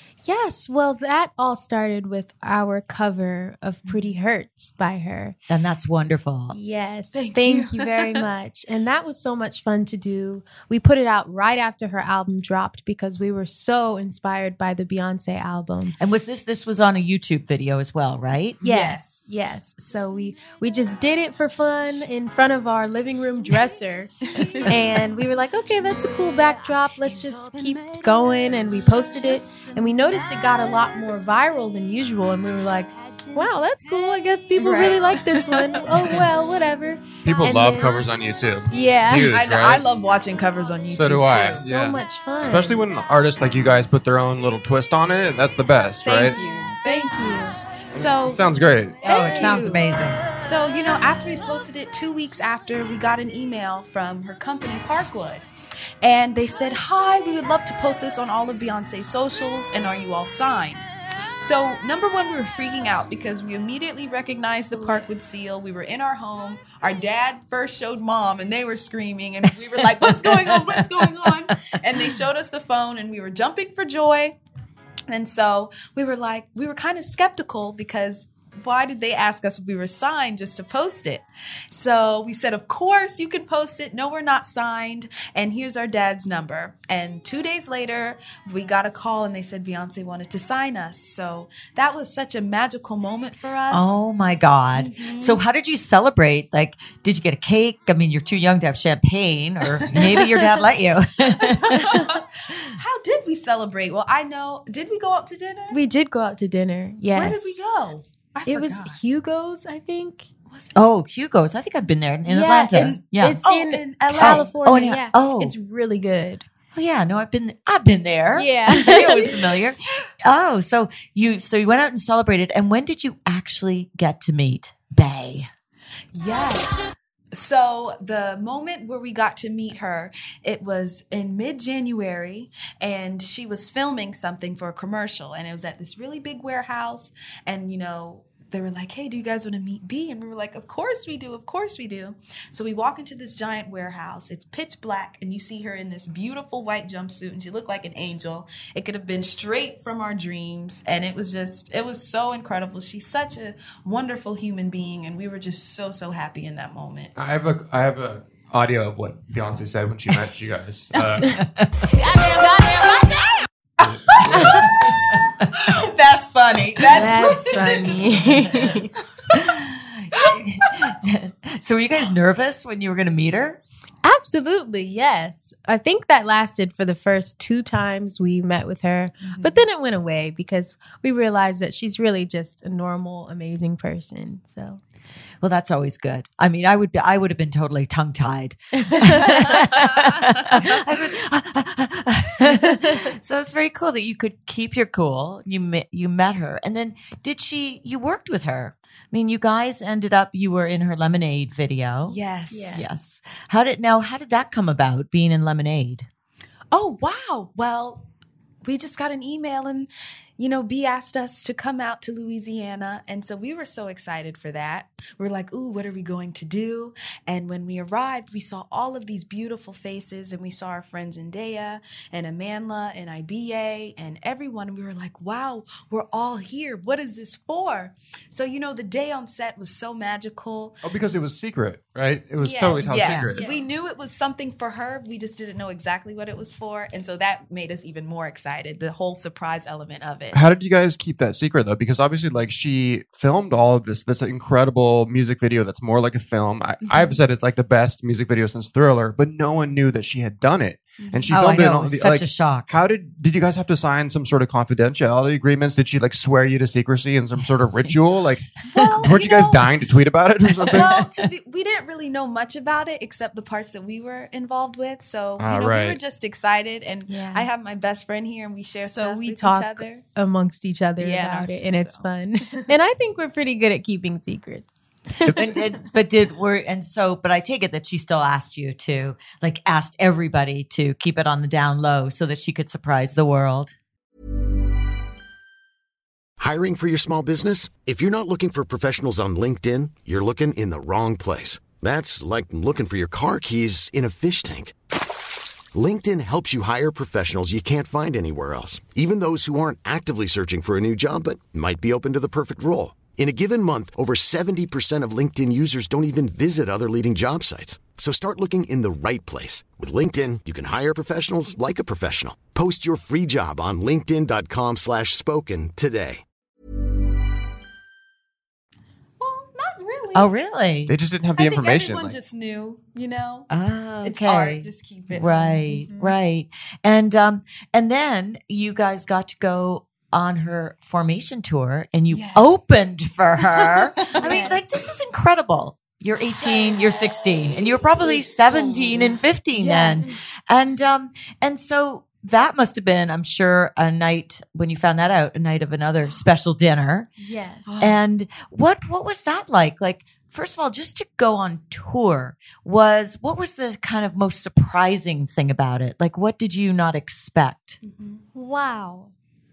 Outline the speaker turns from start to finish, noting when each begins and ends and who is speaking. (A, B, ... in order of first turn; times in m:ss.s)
0:00.2-0:05.4 A
0:05.5-0:06.6 B
0:06.5-0:16.0 A
0:07.1-0:08.2 C
0:16.0-0:18.6 B
0:18.6-0:19.0 C
0:18.6-0:38.1 A
0:24.4-0:24.7 C
0:34.6-0:36.2 C
0:37.2-0:39.8 D
0:38.7-0:39.3 A
0:39.2-0:41.7 C
0:40.9-0:46.4 D
0:41.6-0:42.8 A
0:46.0-0:48.4 C
0:46.3-0:47.6 A
0:48.0-0:49.1 D
0:49.0-0:50.2 B
0:49.1-0:49.8 C
0:50.4-0:55.5 C
0:56.0-1:00.9 C
1:01.4-1:14.4 C
1:10.2-1:10.7 B
1:15.1-1:34.0 C
1:33.7-1:42.0 B
1:34.8-1:35.4 C
1:40.0-1:40.4 A
1:41.3-1:45.8 C
1:45.7-1:47.6 A
1:47.1-1:49.0 C
1:48.5-1:50.3 A
1:50.5-1:50.8 C
1:50.8-1:53.4 B
1:52.3-1:56.5 A
1:52.8-1:54.5 C
1:54.2-1:55.5 B
1:56.7-2:05.5 B
1:58.4-1:59.3 A
1:58.8-1:59.4 C
2:06.1-2:06.8 C
2:07.3-2:37.1 C
2:37.2-2:41.4 D
2:41.4-2:41.7 B
2:42.1-2:43.3 C
2:42.2-2:42.6 A
2:43.8-2:49.4 C
2:43.9-2:44.6 D
2:46.9-2:48.9 A
2:49.3-2:53.6 B
2:54.0-3:04.8 A
2:59.2-2:59.6 C
3:05.4-3:22.2 B
3:08.9-3:09.6 A
3:22.1-3:22.9 C
3:22.5-3:22.9 A
3:22.7-3:26.1 B
3:26.7-3:28.1 C
3:28.6-3:50.8 C
3:50.8-3:53.4 D
3:52.4-3:53.7 A
3:52.8-4:00.4 C
3:53.0-3:53.3 B
4:00.3-4:18.5 D
4:06.9-4:07.2 C
4:11.0-4:11.3 C
4:11.3-4:12.7 B
4:18.6-4:19.8 C
4:19.0-4:21.0 D
4:20.6-4:30.0 C
4:20.7-4:20.9 B
4:25.4-4:26.0 D
4:27.1-4:27.5 A
4:28.8-4:35.5 A
4:31.0-4:32.0 C
4:35.2-4:35.6 D
4:35.3-4:43.8 B
4:46.4-4:54.7 E
4:55.7-5:16.2 E
5:19.2-5:20.3 C
5:20.2-5:20.9 B
5:20.9-5:22.2 D
5:21.4-5:23.5 C
5:23.5-5:47.1 B
5:24.0-5:26.1 C
5:32.1-5:32.6 C
5:33.6-5:34.6 C
5:36.4-5:37.1 C
5:38.0-5:40.1 C
5:47.2-5:47.8 A
5:47.7-5:48.0 C
5:47.8-5:57.8 B
5:57.8-5:58.2 C
5:58.4-5:59.1 A